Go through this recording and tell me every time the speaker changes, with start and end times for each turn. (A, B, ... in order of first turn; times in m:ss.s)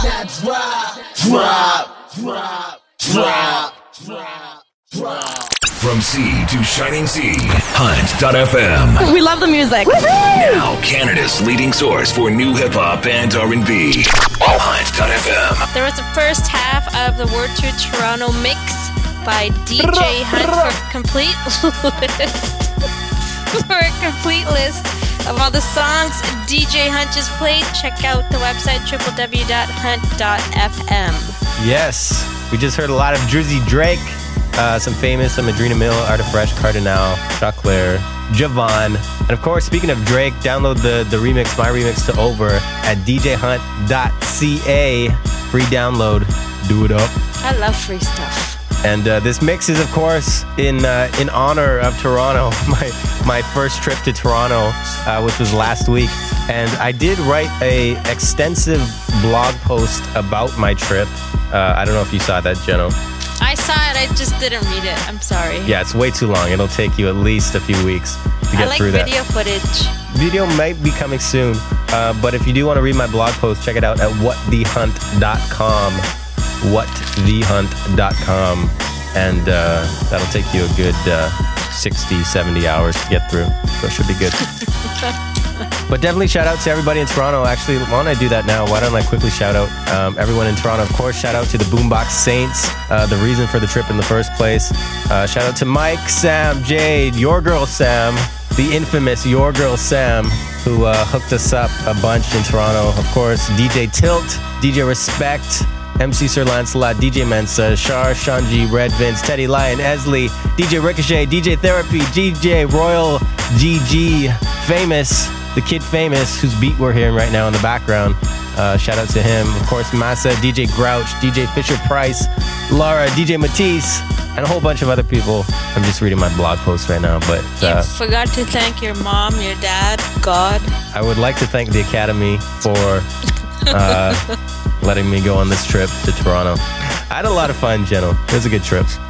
0:05.8-0:09.1 A
0:10.3-0:15.6 A
0:15.7-0:22.5 B
0:23.5-0:31.4 B
0:31.6-0:47.1 C
0:47.4-0:48.6 B
0:48.8-1:03.0 C
1:03.4-1:05.7 B
1:05.6-1:09.1 C
1:08.5-1:09.9 B
1:10.1-1:16.1 C
1:16.6-1:24.4 C
1:25.9-2:07.9 C
2:07.6-2:10.7 B
2:10.9-2:13.1 C
2:13.7-2:14.2 C
2:14.8-2:18.9 C